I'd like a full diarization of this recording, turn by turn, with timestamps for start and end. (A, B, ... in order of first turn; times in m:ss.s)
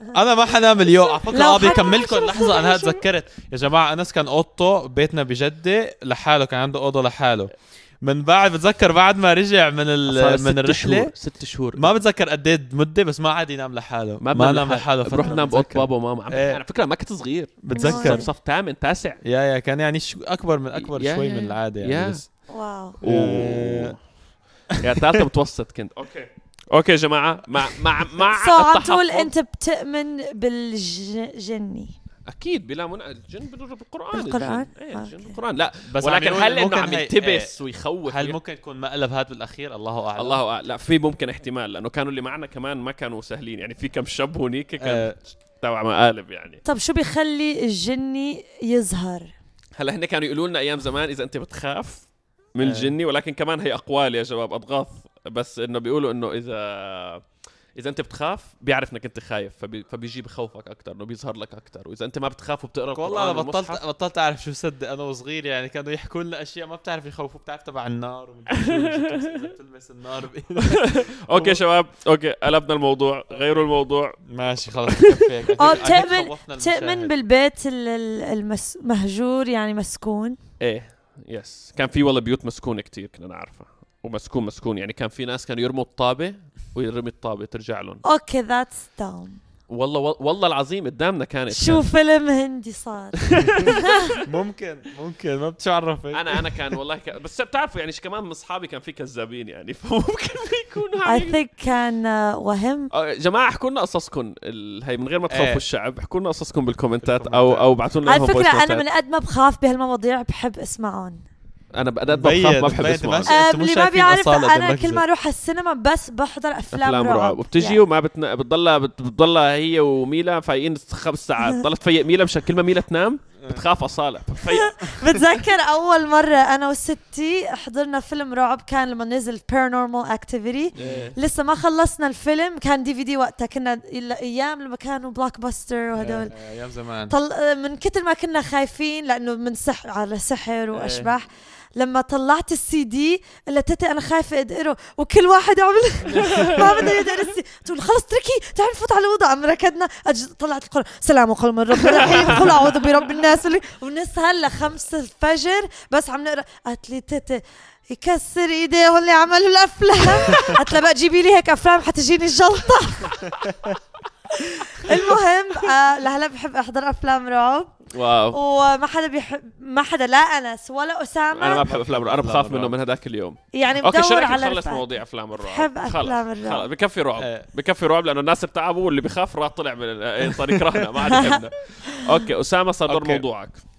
0:00.1-0:11.1 A
0:01.3-0:03.0 B
0:10.1-0:11.9 C
0:11.8-0:16.6 A
0:14.2-0:19.2 C
0:17.6-0:18.2 A
0:17.7-0:18.3 B
0:19.2-0:22.3 A
0:20.7-0:22.2 C
0:22.5-0:23.0 B
0:23.0-0:24.0 C
0:23.0-0:24.0 A
0:24.7-0:25.2 A
0:24.8-0:29.3 C
0:28.2-0:31.9 B
0:32.3-0:38.4 C
0:34.1-0:35.4 B
0:35.8-0:37.5 A
0:38.0-0:40.4 A
0:40.2-0:46.6 C
0:44.8-0:45.2 A
0:46.6-0:49.3 B
0:49.8-1:03.8 C
0:52.6-0:53.0 A
1:02.9-1:11.6 A
1:08.5-1:09.4 C
1:10.7-1:14.2 C
1:13.3-1:13.6 A
1:14.2-1:17.1 A
1:14.9-1:15.8 C
1:15.6-1:20.4 B
1:20.6-1:28.0 C
1:28.0-1:29.4 B
1:29.7-1:31.8 C
1:31.5-1:34.2 B
1:33.2-1:34.1 C
1:34.2-1:36.4 A
1:36.1-1:41.4 C
1:41.0-1:42.9 B
1:42.9-1:48.8 C
1:45.3-1:45.6 A
1:47.0-1:47.7 A
1:48.0-1:51.2 B
1:51.7-1:53.4 C
1:52.1-1:55.0 A
1:53.3-1:57.8 B
1:56.7-2:05.3 C
2:04.4-2:16.3 B
2:10.7-2:11.2 C
2:10.8-2:11.1 A
2:16.0-2:17.2 A
2:17.1-2:43.4 B
2:20.7-2:21.1 A
2:26.1-2:26.9 C
2:26.2-2:26.7 A
2:32.0-2:32.5 C
2:44.3-2:51.6 B
2:47.9-2:48.4 C
2:51.3-3:03.6 C
2:51.5-2:52.7 A
2:53.5-2:56.7 B
2:57.2-2:57.4 A
3:00.6-3:00.8 A
3:01.1-3:01.4 B
3:01.9-3:02.1 B
3:02.9-3:03.2 A